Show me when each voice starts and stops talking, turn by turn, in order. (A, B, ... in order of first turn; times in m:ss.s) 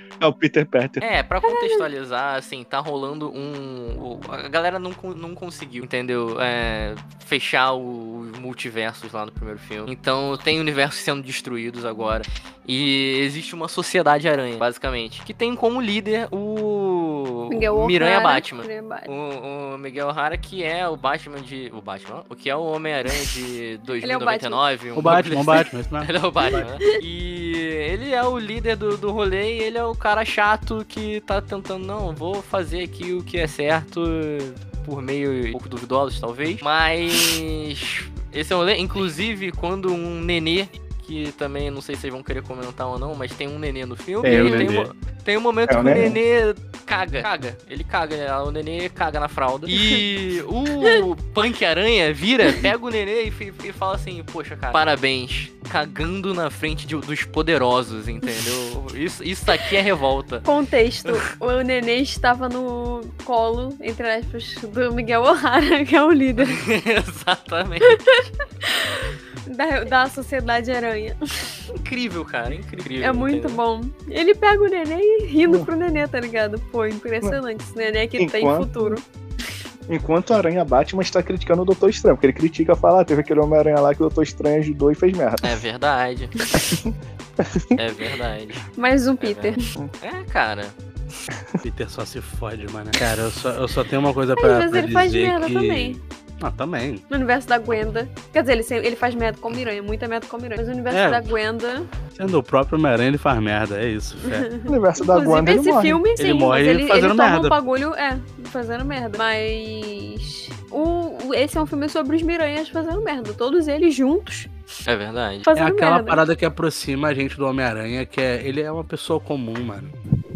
0:00.2-0:01.0 A
0:01.0-1:00.4 B
0:01.4-0:01.8 C
0:17.5-0:19.1 C
0:24.0-0:24.6 C
0:25.0-0:26.7 D
0:26.4-0:27.0 C
0:44.2-0:44.9 D
0:44.3-0:44.7 C
0:45.7-0:46.2 A
0:49.7-0:50.0 C
1:00.4-1:06.6 C
1:06.4-1:08.1 B
1:07.8-1:11.2 C
1:11.7-1:13.6 B
1:13.0-1:19.0 C
1:18.2-1:19.0 A
1:19.9-1:25.6 A
1:25.4-1:26.3 B
1:26.6-1:27.8 A
1:27.8-1:28.6 B
1:28.8-1:29.7 C
1:29.2-1:30.7 B
1:31.6-1:37.0 D
1:34.4-1:36.0 C
1:37.1-1:41.9 C
1:40.9-1:41.3 D
1:42.1-1:44.5 D
1:44.2-1:54.5 C
1:44.7-1:46.0 A
1:46.2-1:47.6 D
1:54.8-1:55.5 B
1:55.4-1:56.2 C
1:55.5-1:59.9 D